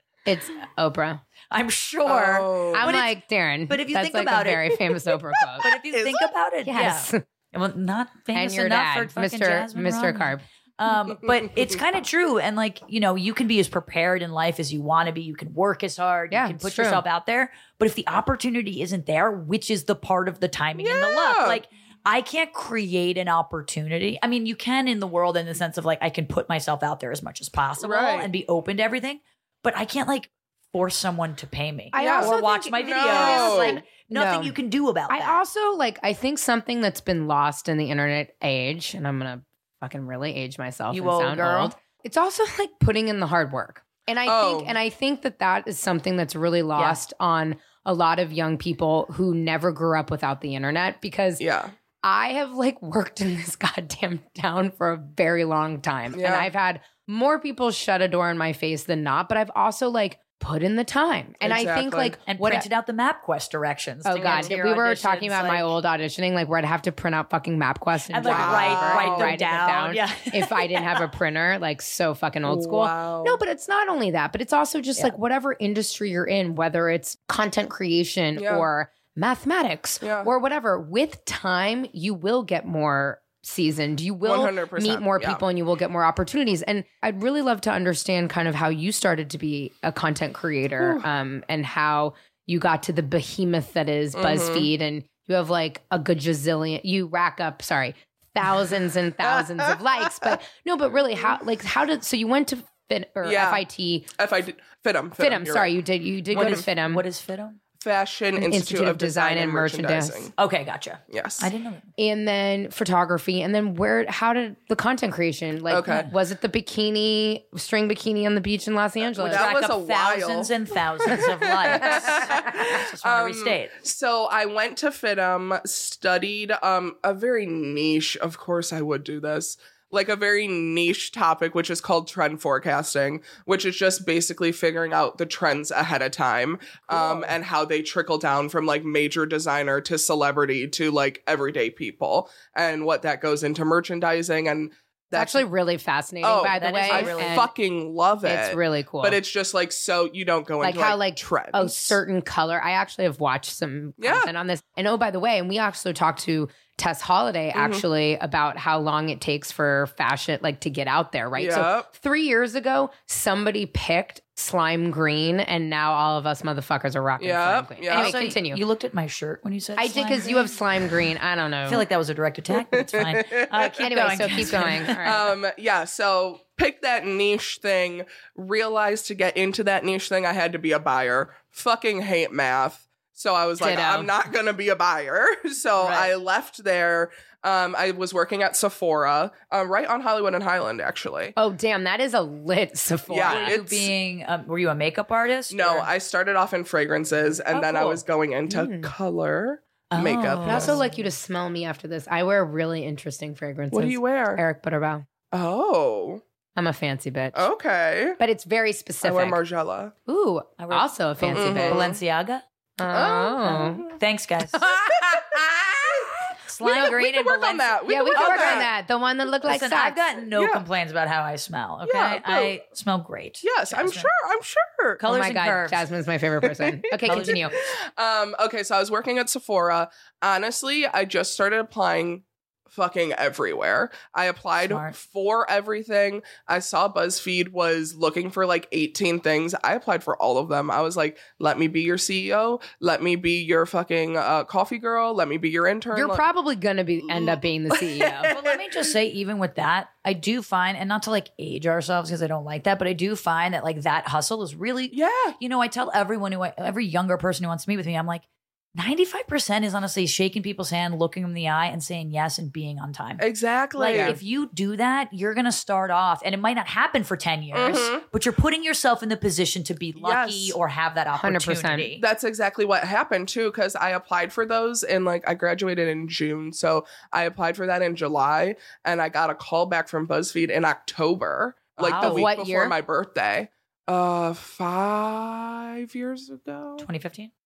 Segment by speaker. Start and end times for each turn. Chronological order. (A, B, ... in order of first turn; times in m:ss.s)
0:00.2-0:01.2 A
0:01.5-0:03.1 B
0:02.0-0:03.0 C
0:02.7-0:05.6 A
0:03.7-0:35.4 B
0:05.6-0:06.3 C
0:06.6-0:07.2 A
0:08.3-0:10.4 A
0:16.3-0:17.0 A
0:20.8-0:21.6 C
0:27.8-0:28.3 C
0:31.9-0:33.8 C
0:31.9-0:34.5 A
0:35.1-0:51.4 A
0:40.9-0:41.7 B
0:44.2-0:44.8 C
0:51.4-0:51.7 C
0:52.0-1:02.6 A
0:56.1-0:56.5 C
1:01.4-1:02.2 C
1:02.3-1:05.7 B
1:04.0-1:44.1 A
1:04.2-1:04.5 C
1:08.1-1:11.1 B
1:08.2-1:09.4 C
1:12.4-1:13.4 C
1:18.4-1:18.7 C
1:20.0-1:20.3 C
1:24.2-1:25.4 C
1:30.8-1:31.1 C
1:34.1-1:34.7 C
1:39.3-1:40.4 C
1:43.2-1:43.6 C
1:44.2-1:45.7 C
1:45.2-1:47.0 A
1:46.3-1:47.6 B
1:46.3-1:46.6 C
1:47.8-1:50.3 C
1:48.4-1:50.3 A
1:50.4-1:51.9 B
1:51.1-1:51.5 C
1:52.0-1:59.4 A
1:55.7-1:56.1 C
1:59.1-2:25.4 C
1:59.2-2:03.8 B
2:01.7-2:02.2 A
2:16.9-2:17.3 A
2:25.1-2:27.5 A
2:26.2-2:32.0 C
2:26.5-2:27.5 B
2:28.2-2:29.2 A
2:30.6-2:48.6 A
2:34.0-2:34.3 C
2:37.5-2:37.8 C
2:41.3-2:41.9 C
2:47.2-2:48.2 C
2:47.9-2:50.6 B
2:49.8-2:51.8 A
2:51.6-2:55.2 B
2:52.5-2:53.9 C
2:53.8-2:55.2 A
2:55.0-3:11.3 C
3:03.6-3:04.1 A
3:05.8-3:06.1 B
3:11.4-3:13.6 A
3:13.1-3:13.9 C
3:13.3-3:15.9 B
3:15.5-3:20.8 C
3:17.5-3:18.0 B
3:18.5-3:18.9 A
3:19.9-3:21.0 B
3:20.4-3:25.0 A
3:23.7-3:24.4 C
3:25.3-3:26.2 C
3:26.6-3:27.4 A
3:27.3-3:28.2 C
3:28.2-3:29.4 A
3:29.0-3:29.9 C
3:30.1-3:31.9 A
3:30.6-3:32.4 B
3:31.3-3:32.0 C
3:32.8-3:33.9 A
3:32.9-3:34.0 C
3:33.4-3:34.7 B
3:34.7-3:38.7 C
3:34.7-3:35.0 A
3:36.5-3:38.7 B
3:37.9-3:40.0 A
3:39.4-3:44.1 B
3:40.3-3:40.6 C
3:41.8-3:42.5 C
3:43.4-3:45.0 C
3:45.0-3:45.8 B
3:45.0-3:47.6 A
3:46.6-4:06.2 C
3:47.0-3:47.5 B
3:54.6-3:54.9 B
4:05.9-4:08.3 A
4:07.1-4:08.9 C
4:08.3-4:23.2 B
4:14.9-4:15.4 C
4:23.2-4:24.2 C
4:23.8-4:32.0 B
4:23.9-4:24.2 A
4:27.5-4:28.0 C
4:30.0-4:30.6 C
4:31.1-4:31.9 A
4:32.0-4:46.9 C
4:41.8-4:42.3 B
4:42.0-4:42.7 A
4:46.8-4:47.3 B